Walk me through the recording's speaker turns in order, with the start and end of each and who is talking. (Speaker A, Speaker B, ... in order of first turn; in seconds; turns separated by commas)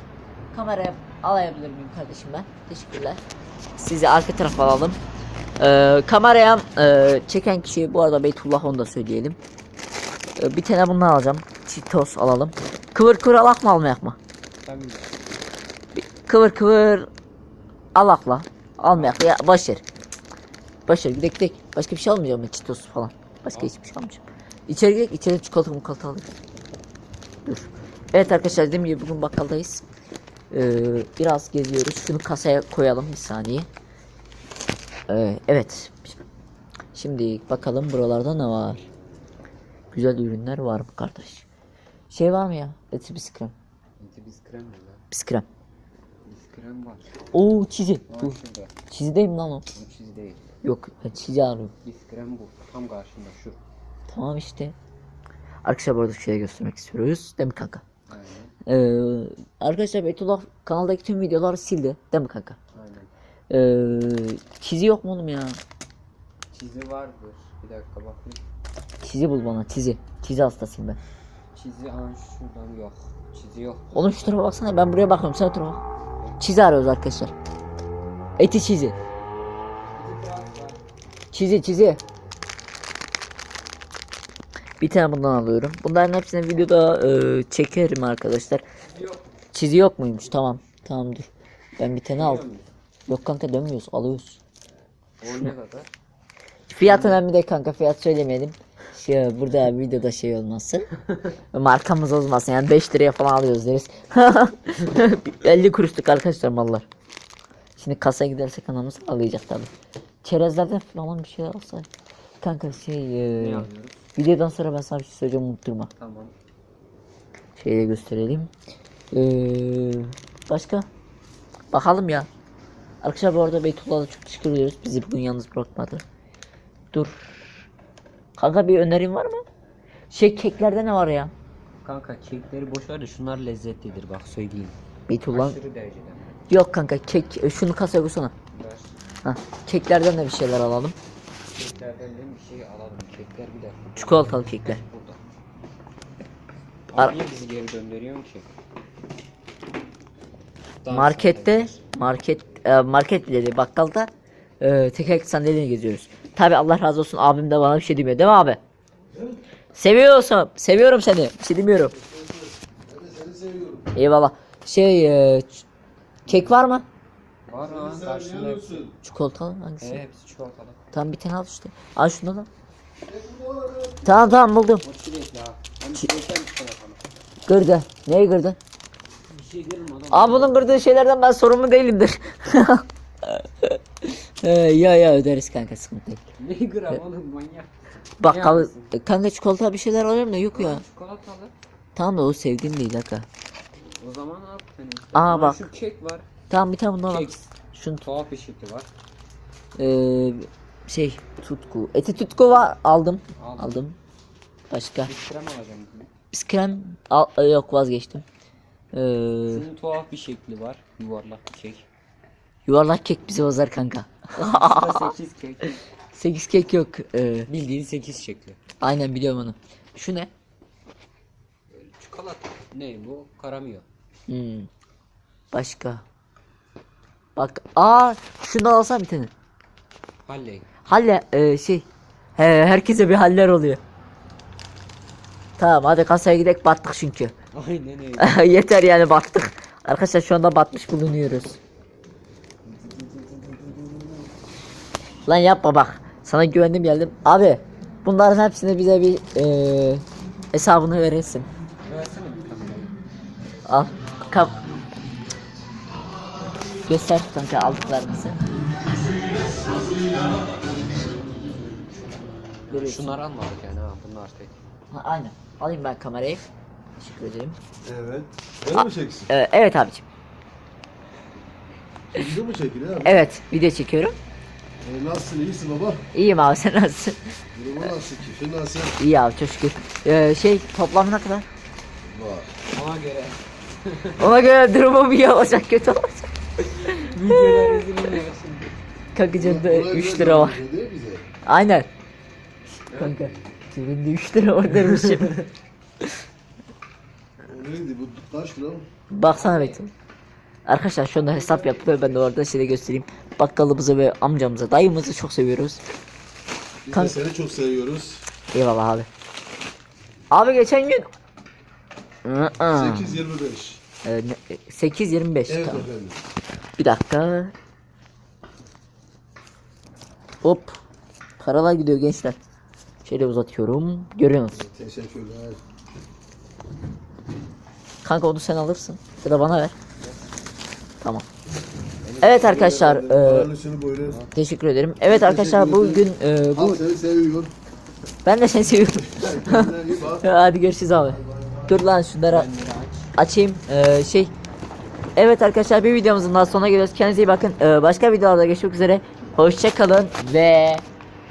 Speaker A: 0.5-3.2, Speaker A: 3.8-5.0, Speaker A: 5.6-9.4, Speaker A: 10.4-14.2, Speaker B: 14.6-15.1, Speaker A: 15.9-17.1, Speaker A: 17.9-19.8, Speaker B: 18.9-19.2, Speaker A: 20.9-26.3, Speaker A: 27.4-29.8, Speaker A: 30.5-33.7, Speaker A: 35.1-36.2, Speaker A: 36.9-38.9, Speaker A: 39.9-41.5, Speaker A: 42.1-43.5, Speaker B: 44.0-45.0, Speaker A: 45.1-45.5, Speaker B: 46.2-47.0, Speaker A: 47.3-48.4, Speaker B: 48.1-48.7, Speaker A: 48.9-49.6, Speaker B: 49.7-50.5, Speaker A: 50.6-51.7, Speaker B: 51.8-53.6, Speaker A: 54.1-54.7, Speaker A: 55.6-57.8, Speaker B: 58.1-58.5, Speaker A: 58.6-62.6, Speaker B: 62.7-63.1, Speaker A: 63.5-65.6, Speaker B: 66.5-68.4, Speaker A: 69.0-71.0, Speaker B: 71.5-74.3, Speaker A: 73.9-75.8, Speaker A: 76.4-77.3, Speaker A: 78.4-79.0, Speaker B: 79.9-80.8, Speaker A: 81.3-82.0, Speaker A: 84.8-88.6, Speaker B: 88.8-89.2, Speaker A: 89.5-92.4, Speaker B: 92.1-92.7, Speaker A: 93.1-94.4, Speaker B: 95.2-95.9, Speaker A: 95.2-95.5, Speaker A: 96.7-100.9, Speaker B: 96.8-97.2, Speaker A: 101.5-106.9, Speaker A: 107.8-109.7, Speaker A: 110.2-111.9, Speaker A: 112.4-115.9, Speaker B: 113.3-114.0, Speaker B: 116.0-116.3, Speaker A: 117.6-118.5, Speaker A: 119.1-120.9, Speaker A: 121.7-122.3, Speaker A: 123.0-126.0, Speaker A: 126.9-127.2, Speaker A: 128.4-129.4, Speaker A: 130.1-131.3, Speaker B: 131.8-134.8, Speaker A: 135.1-135.6, Speaker B: 135.3-136.4, Speaker A: 136.5-138.3, Speaker B: 138.5-138.9, Speaker A: 139.2-140.9, Speaker B: 141.5-145.2, Speaker A: 143.9-144.8, Speaker B: 146.9-148.5, Speaker B: 150.8-151.8, Speaker A: 150.9-154.1, Speaker A: 154.6-158.6, Speaker A: 159.7-161.9, Speaker C: 161.9-163.9, Speaker A: 163.9-165.6, Speaker A: 166.2-166.8, Speaker B: 166.3-166.5, Speaker B: 167.5-168.9, Speaker C: 167.5-168.9, Speaker A: 169.0-170.0, Speaker B: 169.8-170.8, Speaker A: 170.9-172.5, Speaker C: 173.0-174.4, Speaker A: 174.0-174.8, Speaker B: 174.8-177.2, Speaker A: 177.4-178.6, Speaker B: 179.3-180.8, Speaker A: 180.1-186.2, Speaker B: 186.4-188.9, Speaker A: 188.2-190.8, Speaker B: 190.5-191.5, Speaker A: 191.9-193.3, Speaker B: 194.0-196.3, Speaker A: 195.1-195.7, Speaker A: 196.5-198.0, Speaker B: 197.0-198.9, Speaker A: 199.8-203.9, Speaker B: 203.4-203.8, Speaker A: 204.7-205.1, Speaker B: 205.1-206.1, Speaker A: 206.3-208.2, Speaker A: 208.9-209.7, Speaker B: 209.5-211.8, Speaker A: 212.7-215.1, Speaker B: 214.4-215.8, Speaker A: 216.1-217.5, Speaker B: 217.5-218.6, Speaker A: 218.8-220.3, Speaker B: 221.7-223.8, Speaker A: 224.3-224.7, Speaker A: 225.5-226.0, Speaker A: 227.3-229.3, Speaker B: 230.2-230.7, Speaker A: 230.8-231.8, Speaker A: 232.4-233.8, Speaker A: 235.6-237.3, Speaker B: 237.5-238.4, Speaker A: 238.2-241.6, Speaker B: 242.6-244.3, Speaker A: 245.2-251.5, Speaker B: 251.8-252.9, Speaker A: 253.7-254.6, Speaker A: 256.9-258.4, Speaker B: 260.9-264.6, Speaker A: 262.7-263.1, Speaker A: 264.9-266.4, Speaker A: 267.0-267.6, Speaker C: 267.8-269.3, Speaker A: 268.7-270.0, Speaker C: 272.1-273.2, Speaker A: 273.0-274.2, Speaker C: 274.8-276.1, Speaker A: 276.1-277.2, Speaker C: 277.5-278.9, Speaker A: 279.0-281.5, Speaker C: 282.1-282.5, Speaker B: 282.7-284.4, Speaker A: 284.2-286.3, Speaker B: 286.8-288.7, Speaker A: 286.9-287.8, Speaker A: 289.1-290.6, Speaker C: 289.4-291.2, Speaker A: 291.4-291.9, Speaker B: 292.9-293.3, Speaker A: 292.9-295.4, Speaker B: 294.9-295.4, Speaker C: 297.4-298.9, Speaker A: 299.1-299.9, Speaker B: 299.3-299.8, Speaker A: 300.7-305.8, Speaker B: 301.1-302.4, Speaker C: 306.8-308.2, Speaker A: 306.9-307.2, Speaker A: 308.5-309.1, Speaker A: 310.3-311.1, Speaker A: 312.2-313.2, Speaker C: 312.7-313.8, Speaker A: 314.0-315.9, Speaker C: 315.5-316.2, Speaker A: 316.8-317.5, Speaker A: 320.4-320.8, Speaker A: 321.4-322.4, Speaker A: 323.0-324.6, Speaker C: 324.6-325.6, Speaker A: 328.0-329.7, Speaker C: 332.1-334.2, Speaker A: 332.2-333.5, Speaker B: 334.0-334.3, Speaker A: 334.3-336.8, Speaker C: 335.0-337.5, Speaker A: 338.2-342.5, Speaker C: 339.1-340.3, Speaker C: 341.1-341.7, Speaker B: 342.3-343.1, Speaker A: 343.1-344.3, Speaker A: 345.1-350.8